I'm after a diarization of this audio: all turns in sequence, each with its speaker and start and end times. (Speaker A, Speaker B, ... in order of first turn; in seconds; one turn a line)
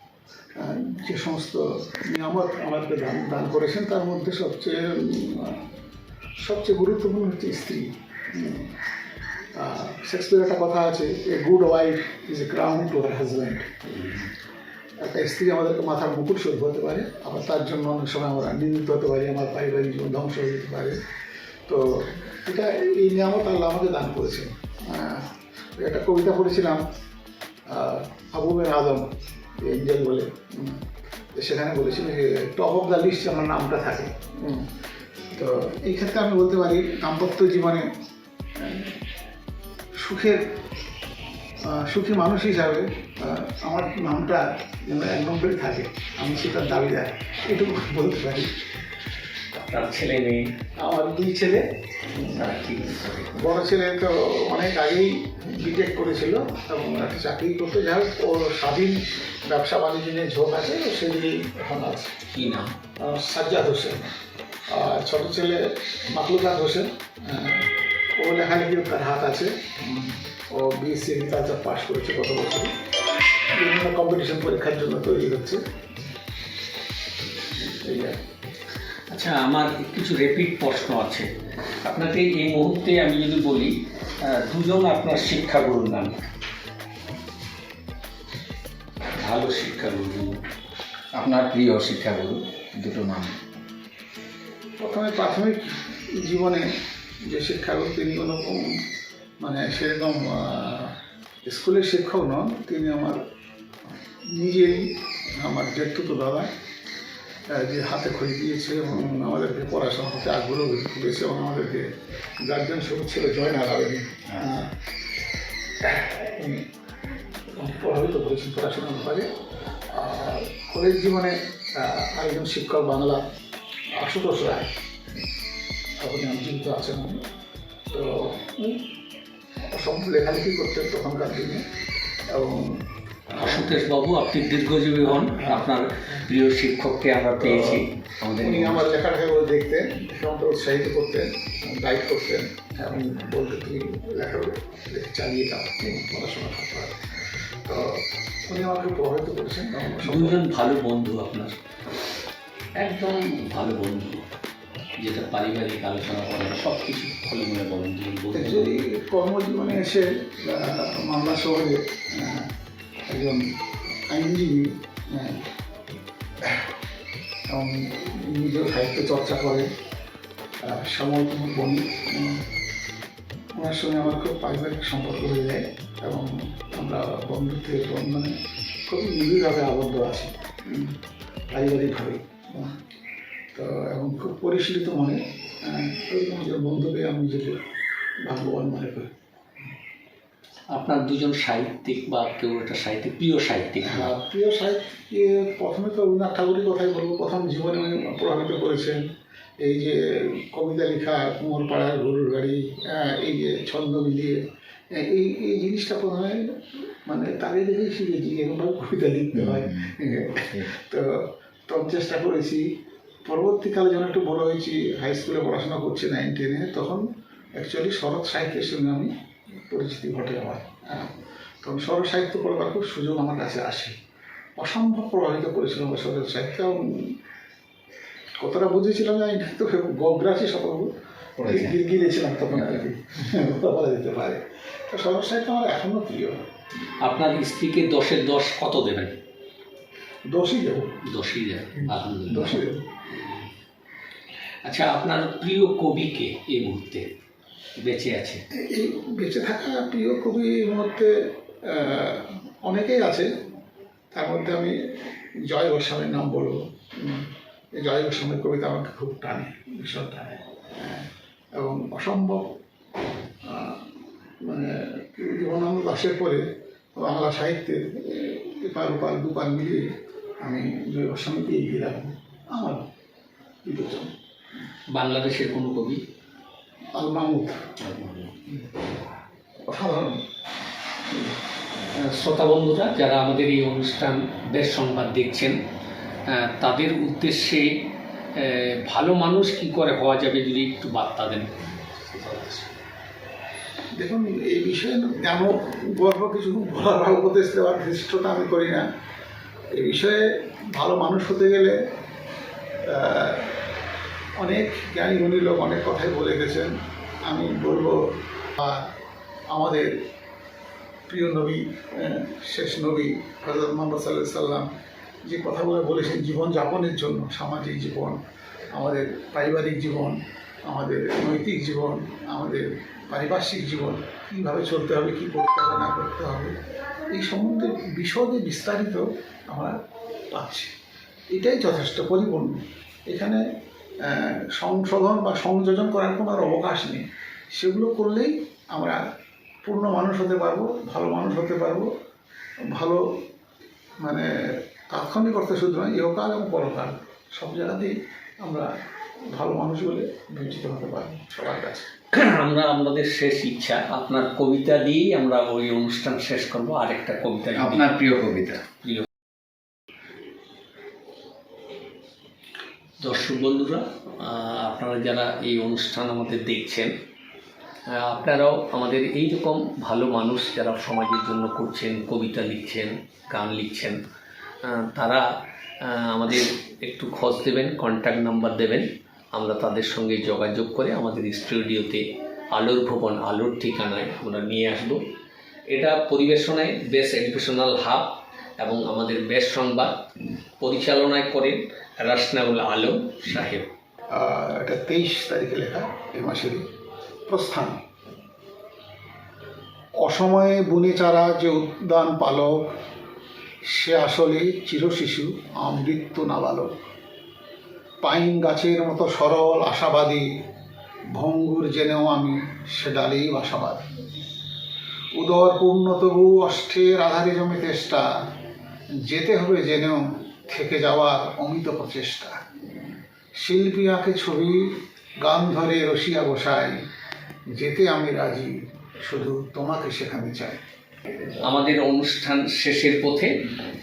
Speaker A: 0.6-5.7
Speaker A: 6.4-8.7
Speaker A: 9.5-13.8
Speaker A: 15.0-21.0
Speaker A: 21.7-26.9
Speaker A: 27.7-30.8
Speaker A: 31.3-34.7
Speaker A: 35.3-37.9
Speaker A: 38.5-39.0
Speaker A: 39.9-40.5
Speaker A: 41.6-48.5
Speaker B: 49.5-50.5
Speaker A: 50.8-52.8
Speaker B: 52.2-53.4
Speaker A: 53.3-62.2
Speaker B: 62.3-62.8
Speaker A: 63.0-64.1
Speaker A: 64.7-72.8
Speaker A: 73.5-75.6
Speaker A: 77.8-78.2
Speaker B: 79.1-81.3
Speaker B: 81.8-86.2
Speaker B: 89.1-90.4
Speaker C: 91.1-93.4
Speaker A: 94.8-96.7
Speaker A: 97.2-98.8
Speaker A: 99.4-103.2
Speaker A: 104.3-106.5
Speaker A: 107.5-114.8
Speaker A: 115.8-116.7
Speaker A: 117.5-119.3
Speaker A: 119.9-123.3
Speaker A: 123.9-124.7
Speaker A: 126.0-127.2
Speaker A: 127.9-128.9
Speaker A: 129.7-131.7
Speaker A: 132.3-132.8
Speaker B: 133.3-138.8
Speaker A: 133.4-133.7
Speaker A: 135.2-135.6
Speaker A: 137.4-137.9
Speaker A: 138.4-150.4
Speaker B: 150.0-151.6
Speaker B: 152.7-154.3
Speaker B: 155.0-158.7
Speaker A: 158.3-162.5
Speaker A: 163.1-163.4
Speaker A: 164.1-165.4
Speaker A: 166.4-166.7
Speaker A: 167.5-169.7
Speaker A: 170.6-172.4
Speaker A: 173.5-181.0
Speaker A: 181.5-182.8
Speaker A: 183.5-187.6
Speaker A: 188.2-189.1
Speaker B: 190.7-194.1
Speaker A: 193.8-199.1
Speaker A: 199.6-212.7
Speaker C: 209.3-209.9
Speaker A: 213.2-223.9
Speaker A: 224.6-227.2
Speaker A: 228.4-236.4
Speaker C: 231.4-231.8
Speaker C: 232.5-232.8
Speaker B: 237.0-239.2
Speaker A: 240.3-241.0
Speaker B: 241.0-242.6
Speaker A: 242.2-242.8
Speaker B: 244.6-247.1
Speaker B: 247.8-248.4
Speaker A: 248.5-253.3
Speaker A: 254.1-262.5
Speaker A: 263.4-272.9
Speaker A: 273.6-274.1
Speaker B: 274.9-276.0
Speaker A: 276.9-277.7
Speaker B: 277.8-278.3
Speaker A: 279.7-280.2
Speaker B: 281.9-285.6
Speaker B: 286.3-287.8
Speaker B: 288.3-292.7
Speaker A: 293.9-298.9
Speaker A: 299.7-301.9
Speaker A: 302.8-303.5
Speaker A: 304.4-306.7
Speaker A: 307.2-308.9
Speaker A: 309.5-310.0
Speaker A: 311.1-314.7
Speaker A: 315.2-318.2
Speaker A: 318.7-326.6
Speaker A: 327.1-329.8
Speaker A: 330.3-330.7
Speaker A: 331.3-333.4
Speaker A: 334.0-339.0
Speaker A: 339.6-341.9
Speaker A: 342.7-343.2
Speaker A: 344.0-348.8
Speaker A: 349.3-351.9
Speaker B: 352.1-358.0
Speaker C: 357.6-358.6
Speaker B: 358.8-359.1
Speaker B: 363.0-366.9
Speaker B: 367.9-374.0
Speaker B: 374.6-385.0
Speaker B: 385.7-390.1
Speaker B: 390.6-393.7
Speaker A: 394.1-396.6
Speaker A: 397.3-397.8
Speaker A: 400.0-402.8
Speaker A: 403.6-406.8
Speaker A: 408.0-410.3
Speaker A: 411.1-413.8
Speaker A: 415.1-418.3
Speaker A: 419.0-422.4
Speaker A: 423.4-426.8
Speaker A: 427.5-430.6
Speaker B: 431.4-433.4